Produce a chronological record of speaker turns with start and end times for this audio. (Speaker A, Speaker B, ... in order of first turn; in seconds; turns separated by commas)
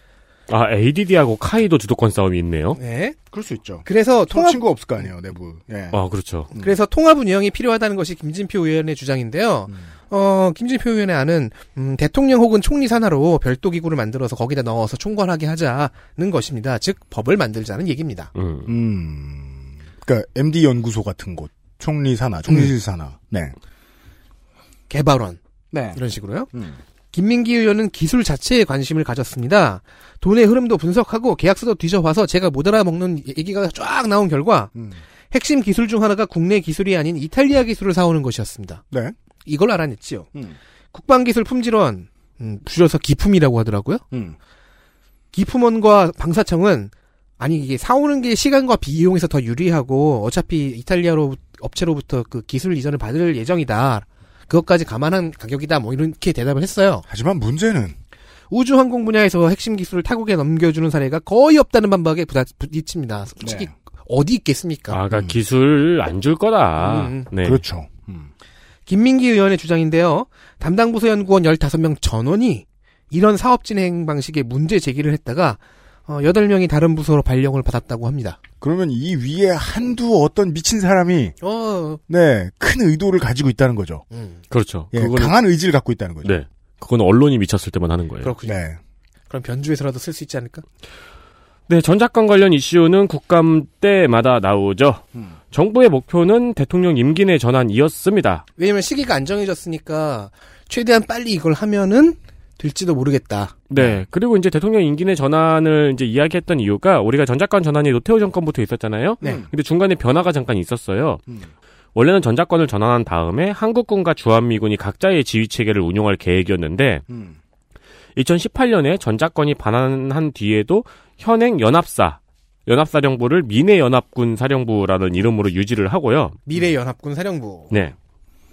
Speaker A: 0.5-2.8, Speaker B: 2.8-3.2, Speaker C: 3.3-6.0, Speaker B: 3.8-4.6, Speaker A: 5.9-6.5, Speaker B: 6.5-18.3, Speaker A: 18.3-18.7, Speaker C: 18.6-23.5, Speaker B: 24.9-25.4, Speaker C: 25.7-26.0, Speaker B: 25.9-26.5, Speaker C: 26.5-26.8, Speaker B: 27.1-34.7, Speaker C: 34.7-35.0, Speaker B: 35.3-38.8, Speaker B: 39.5-40.3, Speaker B: 40.9-44.0, Speaker B: 45.3-57.0, Speaker C: 57.1-58.0, Speaker B: 58.5-65.0, Speaker C: 63.4-63.7, Speaker A: 64.9-67.6, Speaker C: 65.1-65.4, Speaker B: 66.8-67.3, Speaker C: 67.4-68.3, Speaker B: 68.9-78.4, Speaker C: 78.6-81.3, Speaker B: 81.4-82.0, Speaker C: 82.1-84.0, Speaker B: 84.1-84.4, Speaker A: 84.5-85.3, Speaker C: 84.9-86.4, Speaker A: 86.2-88.3, Speaker B: 88.2-88.5, Speaker C: 88.4-88.8, Speaker B: 89.3-90.6, Speaker A: 91.7-98.5, Speaker B: 98.6-103.5, Speaker A: 103.7-111.2, Speaker C: 103.8-104.0, Speaker C: 109.2-109.5, Speaker A: 111.9-117.0, Speaker C: 117.1-117.4, Speaker A: 118.2-126.4, Speaker B: 126.5-127.7